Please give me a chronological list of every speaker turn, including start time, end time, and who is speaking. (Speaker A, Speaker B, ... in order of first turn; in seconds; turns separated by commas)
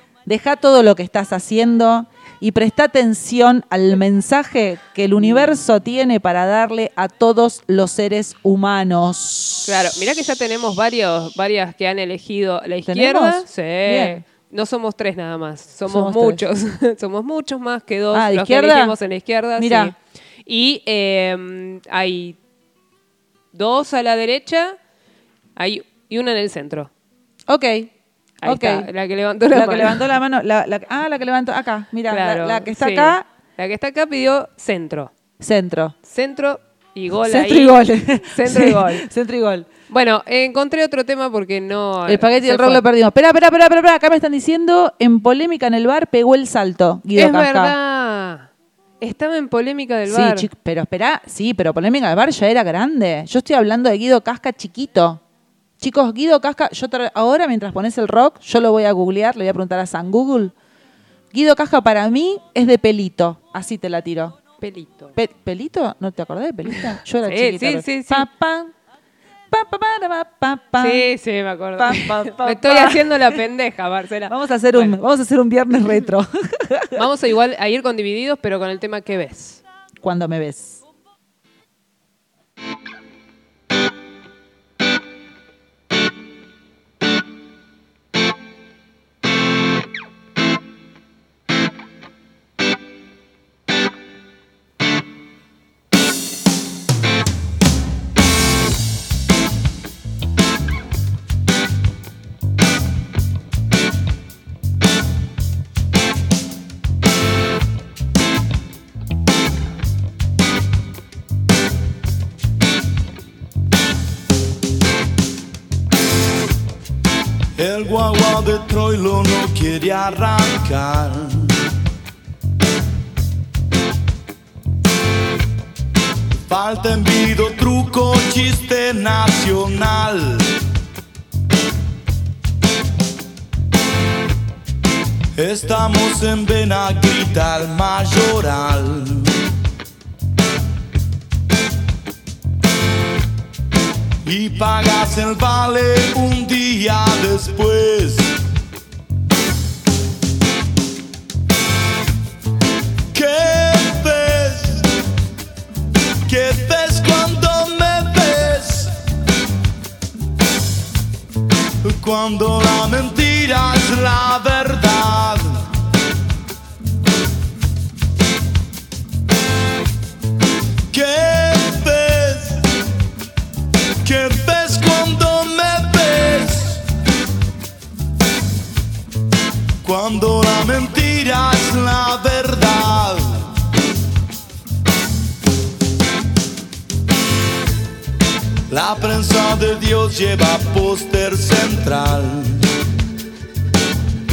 Speaker A: 0.3-9.7, Speaker B: 5.2-5.5, Speaker B: 9.7-22.4, Speaker A: 12.9-14.2, Speaker A: 15.9-16.4, Speaker A: 18.1-18.9, Speaker A: 19.6-19.9, Speaker B: 23.5-24.8, Speaker B: 25.6-26.9, Speaker A: 27.5-27.9, Speaker B: 28.4-30.1, Speaker A: 28.4-28.9, Speaker A: 29.5-33.2, Speaker B: 32.1-35.1, Speaker A: 35.4-36.0, Speaker B: 36.1-39.1, Speaker A: 37.2-39.7, Speaker B: 39.9-42.8, Speaker A: 42.1-47.7, Speaker B: 47.2-48.5, Speaker B: 49.0-50.5, Speaker A: 50.1-55.2, Speaker A: 55.8-60.5, Speaker A: 61.3-64.4, Speaker B: 64.6-65.1, Speaker A: 65.2-68.7, Speaker B: 67.2-68.3, Speaker A: 69.5-71.1, Speaker B: 70.8-75.0, Speaker A: 71.8-73.3, Speaker A: 74.3-77.0, Speaker B: 77.0-79.6, Speaker A: 80.0-80.8, Speaker C: 117.6-121.5, Speaker C: 126.5-130.5, Speaker C: 135.3-139.3, Speaker C: 144.2-148.3, Speaker C: 153.1-154.9, Speaker C: 156.3-159.0, Speaker C: 161.8-165.6, Speaker C: 170.9-172.6, Speaker C: 174.0-176.8, Speaker C: 179.8-183.5, Speaker C: 188.7-192.7